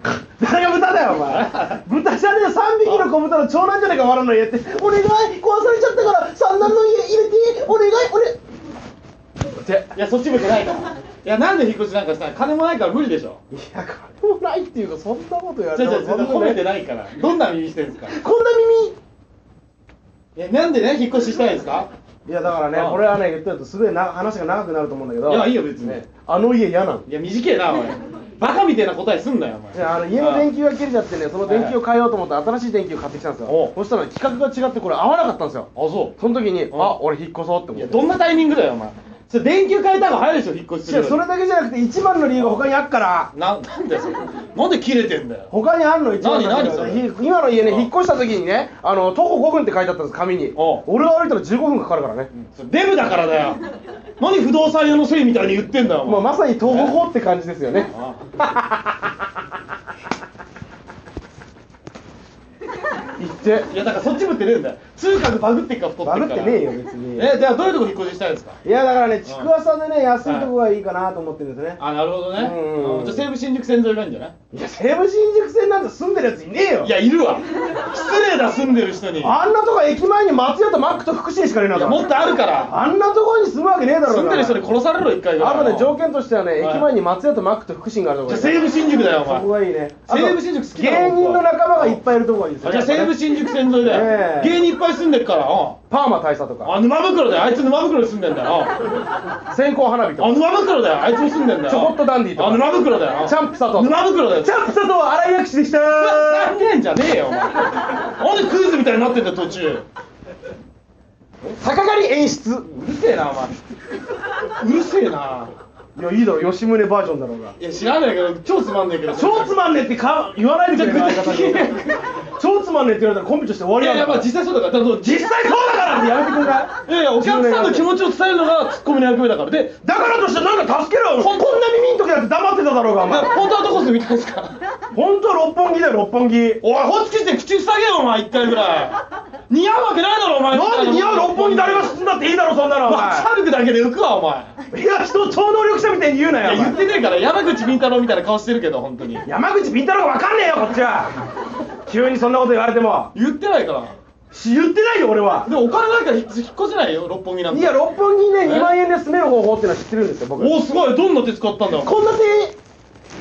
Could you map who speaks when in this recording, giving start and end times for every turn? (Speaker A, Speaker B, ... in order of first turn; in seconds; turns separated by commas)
Speaker A: 0.4-8.4, Speaker B: 1.2-1.8, Speaker B: 2.8-3.1, Speaker A: 9.6-9.9, Speaker B: 9.9-13.4, Speaker A: 13.5-16.6, Speaker B: 15.7-18.2, Speaker A: 18.1-19.0, Speaker B: 20.4-21.9, Speaker A: 22.3-27.1, Speaker B: 22.7-23.0, Speaker B: 25.3-26.0, Speaker B: 27.1-30.5, Speaker A: 29.7-38.1, Speaker B: 31.5-31.8, Speaker B: 33.5-33.8, Speaker B: 35.8-36.1, Speaker B: 36.7-37.0, Speaker B: 37.7-41.2, Speaker A: 40.9-43.3, Speaker B: 42.4-42.6, Speaker B: 43.3-45.5, Speaker A: 45.5-52.3, Speaker B: 46.2-47.1, Speaker B: 47.6-47.9, Speaker B: 50.5-50.8, Speaker B: 52.3-53.6, Speaker B: 54.2-57.0, Speaker A: 56.0-59.0, Speaker B: 57.8-58.3, Speaker A: 63.2-63.7, Speaker B: 63.7-66.6, Speaker A: 66.0-67.3, Speaker B: 67.2-68.6, Speaker A: 68.6-71.8, Speaker B: 69.2-69.5, Speaker B: 70.2-70.5, Speaker B: 71.8-74.3, Speaker A: 72.4-73.3, Speaker A: 74.5-76.9, Speaker B: 76.8-79.4, Speaker A: 79.2-82.1, Speaker B: 81.7-82.7, Speaker A: 82.7-84.7, Speaker B: 84.1-86.0, Speaker A: 85.4-88.7, Speaker B: 86.6-86.9, Speaker B: 88.3-89.5, Speaker A: 89.2-93.2, Speaker B: 90.1-92.0, Speaker B: 92.6-95.8, Speaker A: 93.8-94.6, Speaker A: 95.9-96.7, Speaker B: 96.6-98.8, Speaker A: 99.5-100.4, Speaker B: 100.2-104.7, Speaker A: 101.7-106.5, Speaker B: 105.9-109.8, Speaker A: 111.6-112.7, Speaker B: 112.7-113.5, Speaker B: 114.6-115.5, Speaker A: 116.0-117.6, Speaker B: 117.6-119.6, Speaker A: 119.1-121.7, Speaker B: 120.7-122.0, Speaker A: 122.4-124.3, Speaker B: 123.8-125.3, Speaker A: 125.0-127.9, Speaker B: 126.9-130.0, Speaker A: 129.8-133.3, Speaker B: 131.2-131.6, Speaker B: 133.0-134.6, Speaker A: 134.9-136.6, Speaker B: 136.6-142.0, Speaker A: 140.5-143.3, Speaker B: 142.8-144.5, Speaker A: 144.7-146.8, Speaker B: 146.4-149.2, Speaker A: 149.2-151.2, Speaker A: 151.9-153.1, Speaker B: 153.1-153.9, Speaker A: 154.3-155.5, Speaker B: 155.4-157.8, Speaker A: 157.5-160.6, Speaker B: 158.4-158.8, Speaker B: 160.4-161.9, Speaker A: 161.8-162.6